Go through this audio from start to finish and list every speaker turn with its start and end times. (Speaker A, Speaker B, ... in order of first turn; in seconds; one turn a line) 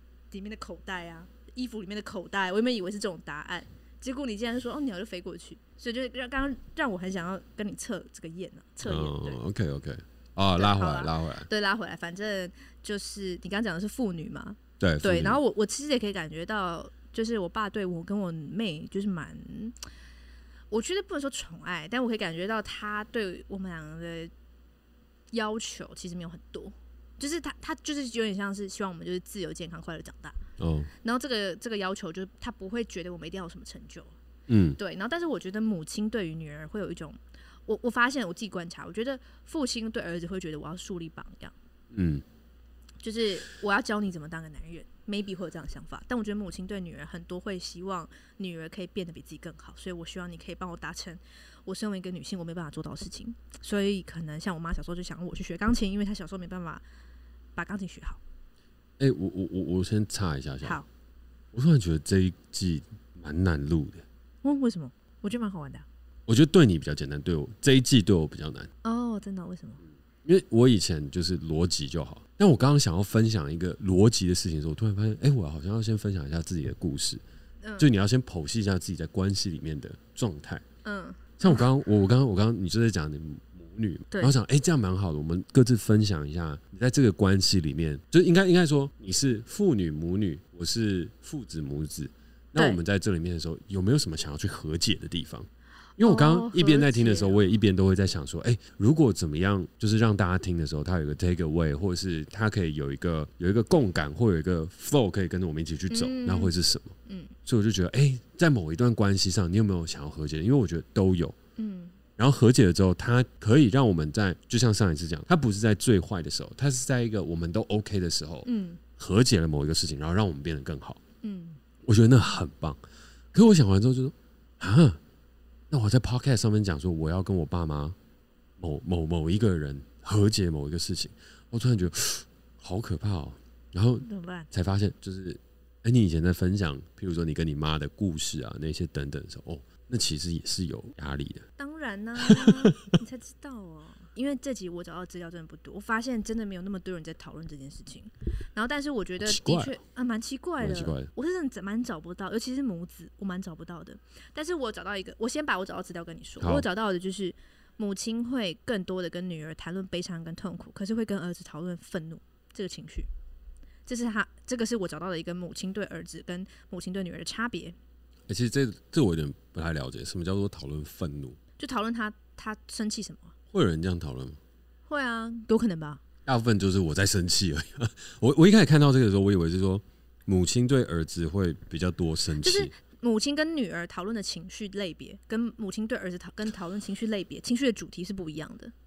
Speaker A: 0.3-9.4
Speaker B: 8.8-11.5
Speaker A: 10.6-19.8
Speaker B: 14.8-15.4
Speaker A: 20.7-24.3
Speaker A: 25.3-30.4
Speaker B: 30.6-30.9
Speaker A: 31.0-34.1
Speaker B: 34.5-34.8
Speaker A: 34.8-41.5
Speaker B: 41.9-42.2
Speaker A: 43.0-56.8
Speaker A: 57.5-58.2
Speaker B: 59.0-60.8
Speaker B: 61.5-64.0
Speaker A: 64.4-65.8
Speaker B: 66.3-68.7
Speaker A: 68.8-69.8
Speaker B: 70.2-77.2
Speaker A: 77.6-77.9
Speaker B: 77.8-80.6
Speaker A: 80.8-81.6
Speaker B: 81.4-106.9
Speaker A: 96.0-97.4
Speaker A: 105.9-106.5
Speaker A: 107.0-107.3
Speaker B: 107.5-111.4
Speaker A: 111.6-112.0
Speaker B: 112.2-121.0
Speaker A: 118.5-118.8
Speaker A: 121.2-121.6
Speaker B: 121.8-122.8
Speaker B: 123.3-125.0
Speaker B: 125.7-128.0
Speaker B: 128.6-141.4
Speaker A: 134.0-134.5
Speaker A: 141.6-163.1
Speaker B: 142.2-142.9
Speaker B: 149.2-149.8
Speaker B: 150.6-151.1
Speaker B: 156.4-156.7
Speaker A: 163.9-167.8
Speaker B: 168.3-171.4
Speaker A: 171.6-173.3
Speaker B: 173.5-174.4
Speaker A: 174.9-176.0
Speaker B: 176.2-182.7
Speaker A: 182.4-188.7